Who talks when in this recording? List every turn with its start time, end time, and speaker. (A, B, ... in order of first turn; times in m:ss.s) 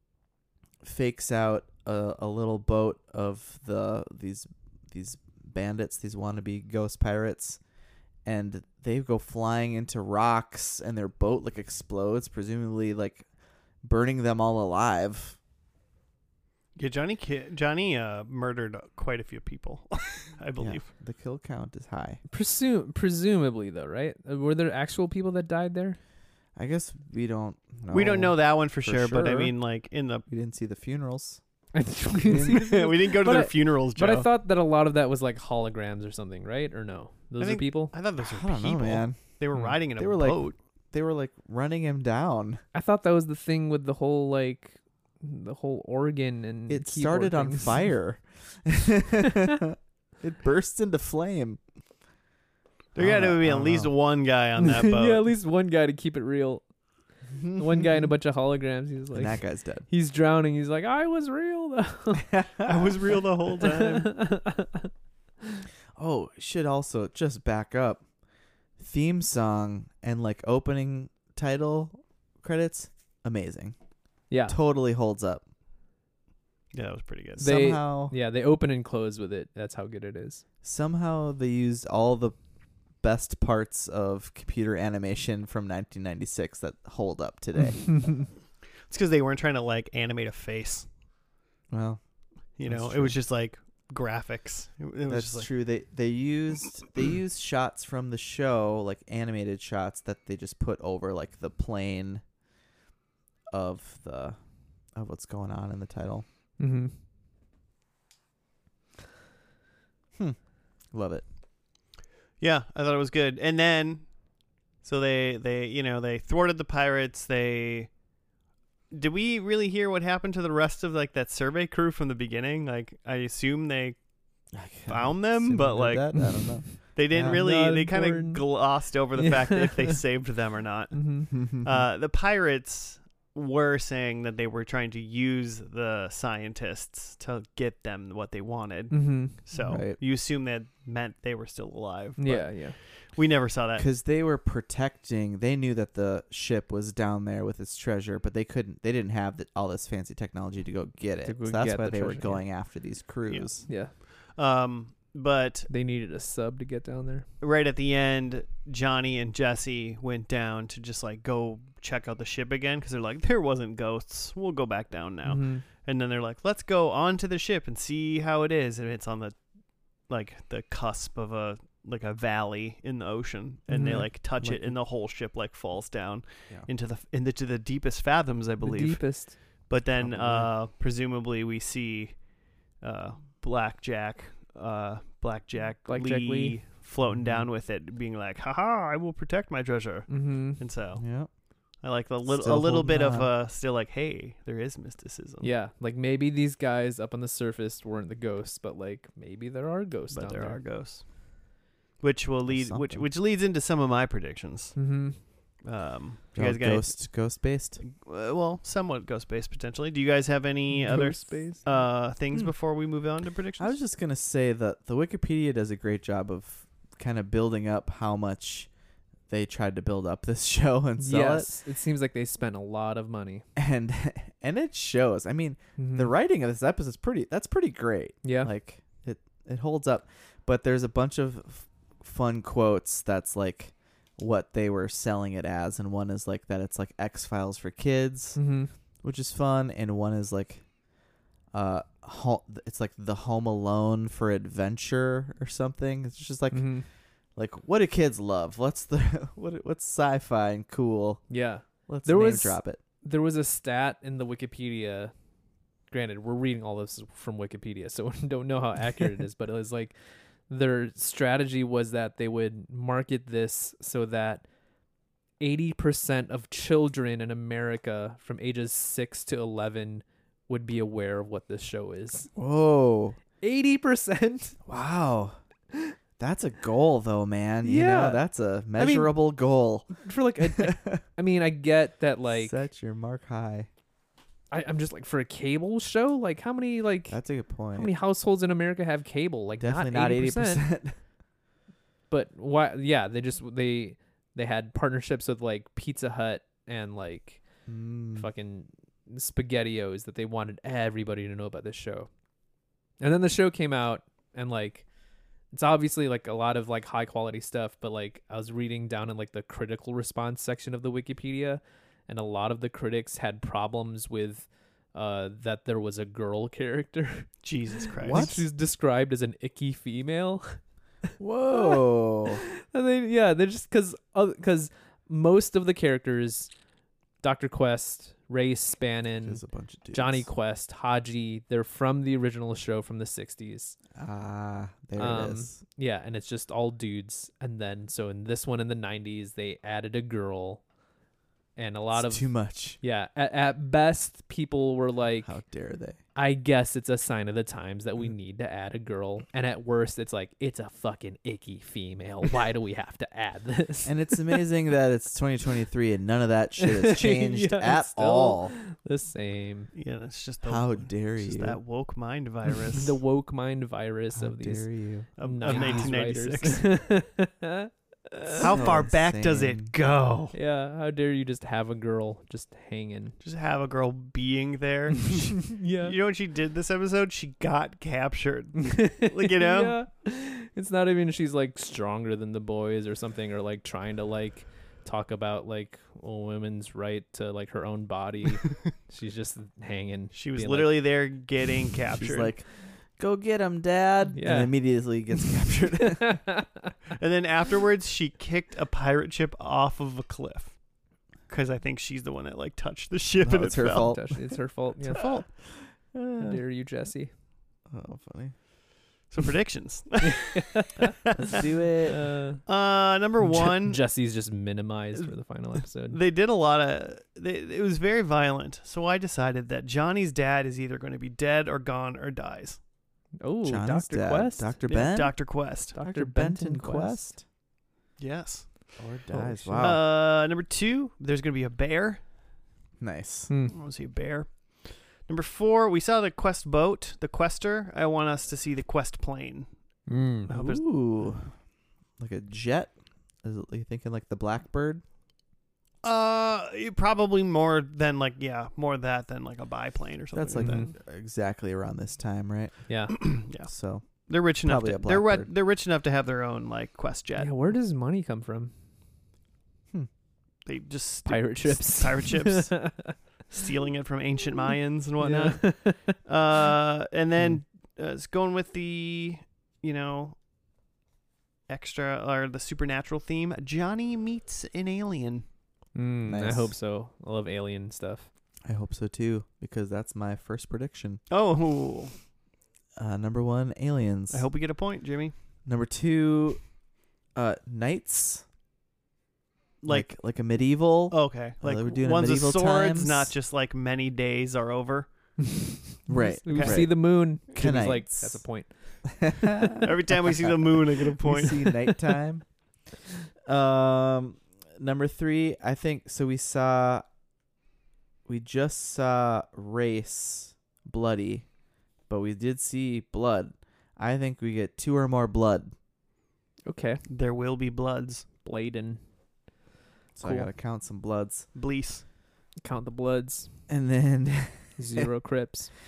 0:00.8-0:07.6 A
0:08.2-0:13.3 A
0:13.8-0:15.4 A
0:16.8-0:20.9 B
0:20.6-0:22.2 A
0:22.3-0:26.0 C
0:26.6-0:29.5 A
0:27.9-0:30.2 B
0:30.3-0:31.4 A
0:31.7-0:37.9 C
0:32.3-0:32.6 A
0:32.4-0:34.3 B
0:37.4-0:40.6 B
0:38.2-0:42.6 A
0:42.7-0:47.9 C
0:46.7-0:51.6 A
0:53.0-0:55.2 B
0:53.0-0:53.9 A
0:54.6-0:56.6 C
0:57.6-1:02.3 C
0:59.1-0:59.9 A
1:02.3-1:02.8 A
1:02.6-1:04.2 B
1:03.6-1:04.9 C
1:06.0-1:08.0 A
1:08.8-1:13.8 A
1:14.3-1:14.6 C
1:14.5-1:15.4 A
1:16.7-1:17.5 B
1:17.4-1:18.1 A
1:17.4-1:20.4 C
1:20.6-1:22.4 A
1:23.0-1:28.1 A
1:28.9-1:30.9 B
1:31.7-1:32.0 A
1:32.6-1:35.5 B
1:32.6-1:33.2 A
1:35.1-1:42.2 A
1:43.5-1:44.4 A
1:44.9-1:46.2 A
1:46.6-1:46.9 C
1:50.9-1:51.2 A
1:52.4-1:54.1 B
1:54.8-1:57.9 B
1:58.9-2:04.0 B
2:04.5-2:07.4 A
2:04.9-2:23.9 B
2:06.1-2:08.5 C
2:09.2-2:10.0 C
2:10.9-2:11.3 C
2:11.3-2:11.8 A
2:18.9-2:19.5 C
2:19.6-2:20.0 A
2:22.2-2:22.8 C
2:23.8-2:33.6 A
2:31.2-2:32.4 C
2:33.3-2:35.7 B
2:33.7-2:33.9 C
2:35.7-2:37.3 C
2:37.4-2:49.4 B
2:45.2-2:45.6 C
2:50.0-3:02.2 B
2:53.7-2:54.1 C
2:54.4-2:54.7 A
2:58.6-2:59.4 C
3:00.0-3:00.5 A
3:02.8-3:11.0 B
3:05.9-3:06.6 C
3:07.1-3:07.5 A
3:10.1-3:10.6 C
3:11.0-3:11.3 A
3:11.8-3:15.5 B
3:12.3-3:13.3 A
3:15.4-3:20.6 C
3:20.1-3:21.5 B
3:22.0-3:27.1 B
3:22.5-3:23.0 A
3:24.8-3:25.2 C
3:26.4-3:27.8 A
3:27.8-3:33.8 B
3:30.7-3:31.6 C
3:33.6-3:38.7 A
3:39.3-3:41.5 A
3:41.0-3:43.4 C
3:43.6-3:58.4 A
3:45.8-3:46.1 C
3:48.2-3:48.5 C
3:58.4-3:58.7 C
3:59.0-4:00.6 A
4:01.5-4:06.8 A
4:06.5-4:06.8 C
4:07.4-4:11.3 A
4:11.3-4:15.1 C
4:11.9-4:12.8 A
4:15.9-4:19.9 C
4:20.5-4:24.4 C
4:25.4-4:32.3 C
4:32.4-4:33.2 A
4:33.4-4:34.6 C
4:34.7-4:35.4 A
4:36.2-4:41.0 A
4:37.6-4:38.2 C
4:38.8-4:39.2 C
4:39.9-4:42.6 C
4:42.3-4:43.7 A
4:44.5-4:47.2 C
4:47.1-4:47.9 A
4:47.7-4:50.6 C
4:49.6-4:51.0 A
4:52.1-4:57.4 C
4:57.7-4:58.3 A
4:58.2-5:02.1 C
5:03.0-5:04.8 C
5:05.5-5:17.3 C
5:17.4-5:18.3 B
5:18.0-5:18.5 A
5:18.1-5:20.6 C
5:21.2-5:22.4 A
5:21.5-5:26.5 C
5:27.2-5:29.4 C
5:29.2-5:30.3 A
5:29.9-5:33.8 C
5:34.0-5:35.6 A
5:35.0-5:40.6 C
5:41.6-5:45.4 C
5:41.9-5:42.8 A
5:45.2-5:46.0 A
5:46.2-5:54.4 C
5:53.8-5:58.6 A
5:56.6-5:59.7 C
5:59.7-6:03.0 B
6:00.4-6:01.6 A
6:02.7-6:08.7 C
6:04.2-6:05.9 A
6:05.2-6:06.7 B
6:08.4-6:10.3 B
6:08.4-6:09.7 A
6:10.3-6:13.2 C
6:13.2-6:19.8 B
6:15.1-6:16.0 C
6:18.6-6:30.9 C
6:30.1-6:32.3 B
6:32.0-6:36.2 A
6:34.1-6:34.6 C
6:35.9-6:36.7 C
6:37.0-6:40.6 B
6:41.3-6:44.0 B
6:43.2-6:44.4 A
6:43.8-6:45.3 C
6:44.9-6:45.2 B
6:44.9-6:46.4 A
6:46.2-6:47.1 C
6:47.7-6:48.4 A
6:49.1-6:51.4 B
6:50.0-6:50.9 C
6:51.2-6:52.1 A
6:51.9-6:52.4 C
6:52.4-6:53.8 B
6:53.2-6:56.0 C
6:55.9-7:02.6 B
7:03.2-7:04.5 C
7:03.4-7:05.2 A
7:04.7-7:05.8 B
7:05.7-7:07.1 C
7:05.8-7:07.2 A
7:08.0-7:08.7 B
7:08.8-7:09.8 A
7:09.1-7:09.7 C
7:09.6-7:12.0 B
7:12.8-7:13.3 A
7:13.3-7:13.5 C
7:13.5-7:19.5 B
7:19.9-7:20.3 C
7:20.3-7:20.6 B
7:20.3-7:21.3 A
7:22.0-7:24.8 A
7:25.8-7:30.7 B
7:30.1-7:32.6 A
7:30.4-7:30.7 C
7:32.7-7:33.0 C
7:32.9-7:33.5 B
7:33.5-7:35.3 A
7:34.1-7:37.4 B
7:37.2-7:38.5 C
7:40.5-7:50.2 B
7:41.1-7:43.0 C
7:45.0-7:46.0 C
7:51.5-7:55.2 B
7:55.7-7:58.1 C
7:56.1-7:56.5 A
7:58.5-8:01.0 A
8:01.1-8:01.9 B
8:02.8-8:04.3 A
8:04.1-8:05.1 B
8:05.5-8:06.4 A
8:07.2-8:08.2 A
8:09.6-8:10.0 B
8:09.7-8:13.1 A
8:10.9-8:14.9 B
8:15.3-8:19.6 C
8:15.9-8:18.4 A
8:16.3-8:16.7 B
8:19.0-8:20.4 A
8:19.6-8:21.5 B
8:21.0-8:22.3 A
8:21.5-8:21.8 C
8:23.3-8:26.8 A
8:28.1-8:31.3 A
8:31.9-8:35.5 A
8:36.5-8:36.8 C
8:36.9-8:38.1 B
8:38.2-8:38.8 C
8:40.0-8:41.3 A
8:40.0-8:40.3 C
8:41.4-8:41.8 B
8:42.4-8:43.3 C
8:43.5-8:44.9 A
8:44.6-8:45.5 C